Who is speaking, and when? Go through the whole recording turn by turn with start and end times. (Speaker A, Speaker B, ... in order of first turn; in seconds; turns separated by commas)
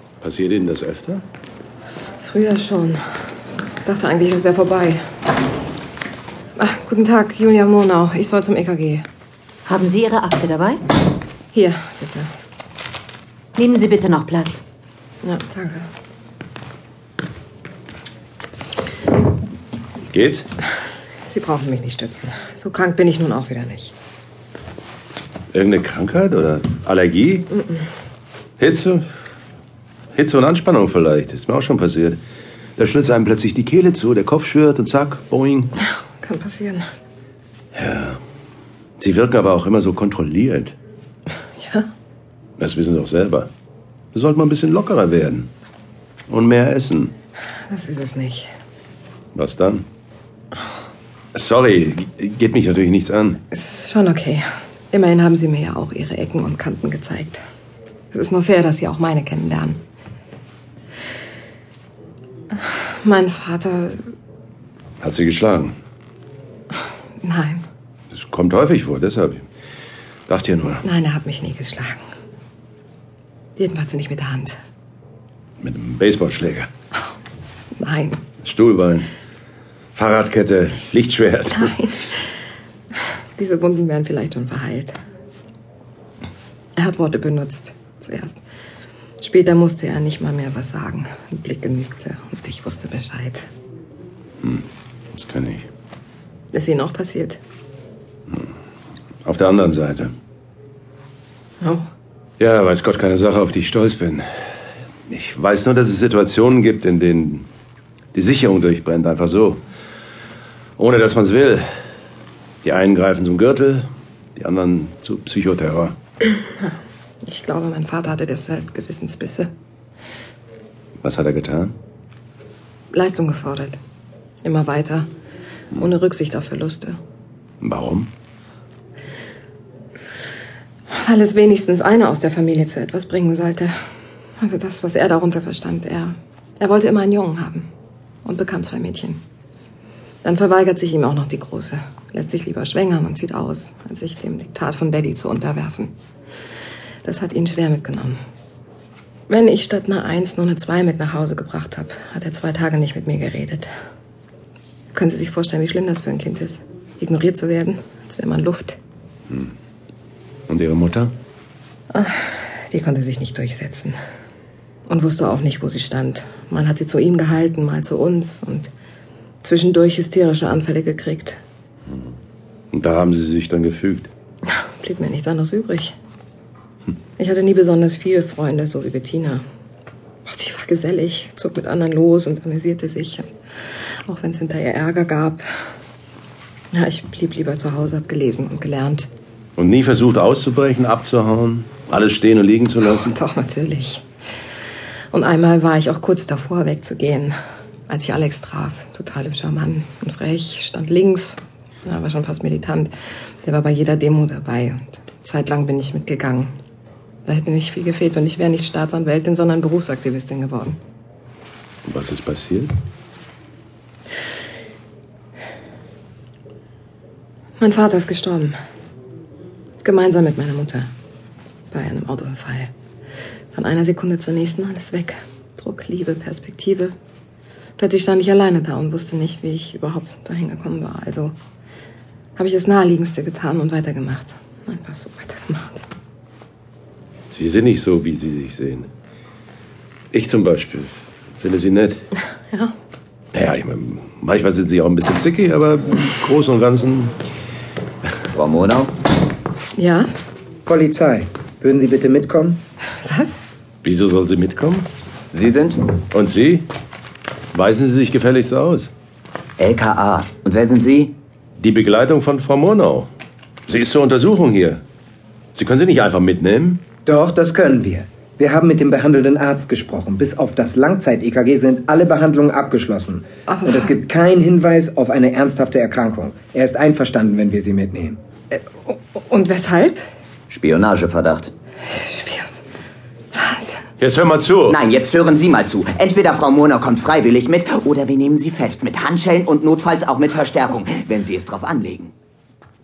Speaker A: 0.2-1.2, Speaker B: 2.2-3.0, Speaker B: 3.8-5.0, Speaker B: 6.6-9.1, Speaker C: 9.7-10.8, Speaker B: 11.5-12.3, Speaker C: 13.6-14.6, Speaker B: 15.2-15.9, Speaker A: 20.1-20.5, Speaker B: 21.3-23.9, Speaker A: 25.5-27.5, Speaker A: 28.6-29.0, Speaker A: 30.1-32.2, Speaker A: 32.8-35.7, Speaker B: 36.2-36.9, Speaker A: 37.7-38.2, Speaker A: 39.0-40.8, Speaker B: 41.6-41.9, Speaker A: 42.6-43.5, Speaker A: 44.1-45.5, Speaker A: 46.3-47.1, Speaker B: 47.7-48.5, Speaker A: 49.4-49.9, Speaker A: 51.3-53.4, Speaker B: 53.5-57.4, Speaker B: 58.1-59.8, Speaker B: 62.5-64.0, Speaker A: 65.0-65.7, Speaker B: 67.2-67.6, Speaker A: 68.1-69.5, Speaker A: 70.3-70.8, Speaker B: 70.8-72.0, Speaker B: 73.6-74.5, Speaker A: 75.6-76.7, Speaker B: 77.8-78.2, Speaker A: 78.4-79.1, Speaker A: 80.0-81.8, Speaker B: 81.6-82.1, Speaker B: 83.4-85.0, Speaker B: 86.8-88.4, Speaker B: 89.2-93.5, Speaker A: 94.4-95.7, Speaker B: 96.5-97.4, Speaker A: 99.2-100.1, Speaker A: 102.4-104.2, Speaker A: 105.1-107.5, Speaker A: 108.1-109.6, Speaker A: 110.8-111.7, Speaker A: 112.6-116.0, Speaker B: 116.6-119.5, Speaker A: 121.0-121.7, Speaker B: 122.9-123.8, Speaker B: 124.4-125.1, Speaker B: 125.7-127.0, Speaker A: 127.6-128.1, Speaker B: 130.9-133.8, Speaker B: 134.4-137.7, Speaker B: 138.2-139.2, Speaker B: 140.2-145.9, Speaker B: 147.0-148.2, Speaker B: 149.3-153.7, Speaker B: 154.9-158.8, Speaker A: 160.5-161.1, Speaker B: 161.9-164.0, Speaker B: 164.9-168.7, Speaker B: 169.4-171.4, Speaker A: 172.7-174.1, Speaker B: 174.5-175.9, Speaker B: 177.2-179.4, Speaker B: 180.3-183.3, Speaker B: 184.1-185.4, Speaker B: 186.7-189.1, Speaker A: 189.6-193.2, Speaker B: 192.9-194.0, Speaker B: 195.1-197.3, Speaker B: 197.9-206.5, Speaker B: 207.2-210.8, Speaker A: 211.9-212.7, Speaker B: 217.6-218.6, Speaker B: 219.8-220.9, Speaker B: 221.7-222.7, Speaker B: 223.5-226.9, Speaker B: 227.8-231.3, Speaker B: 232.4-235.8, Speaker A: 237.3-238.9, Speaker A: 240.1-242.1, Speaker A: 243.3-247.2, Speaker D: 248.3-248.9, Speaker B: 249.8-250.1, Speaker E: 250.7-252.6, Speaker B: 253.0-253.4, Speaker A: 253.8-254.9, Speaker D: 255.3-255.9, Speaker A: 256.1-256.7, Speaker A: 257.5-258.9, Speaker D: 259.6-261.1, Speaker A: 261.6-263.1, Speaker A: 263.7-264.8, Speaker A: 265.6-266.8, Speaker E: 267.1-278.2, Speaker B: 273.5-273.9, Speaker B: 278.5-280.0, Speaker D: 280.5-281.5, Speaker B: 281.9-282.5, Speaker B: 283.3-283.8, Speaker A: 284.0-284.8, Speaker D: 284.7-292.1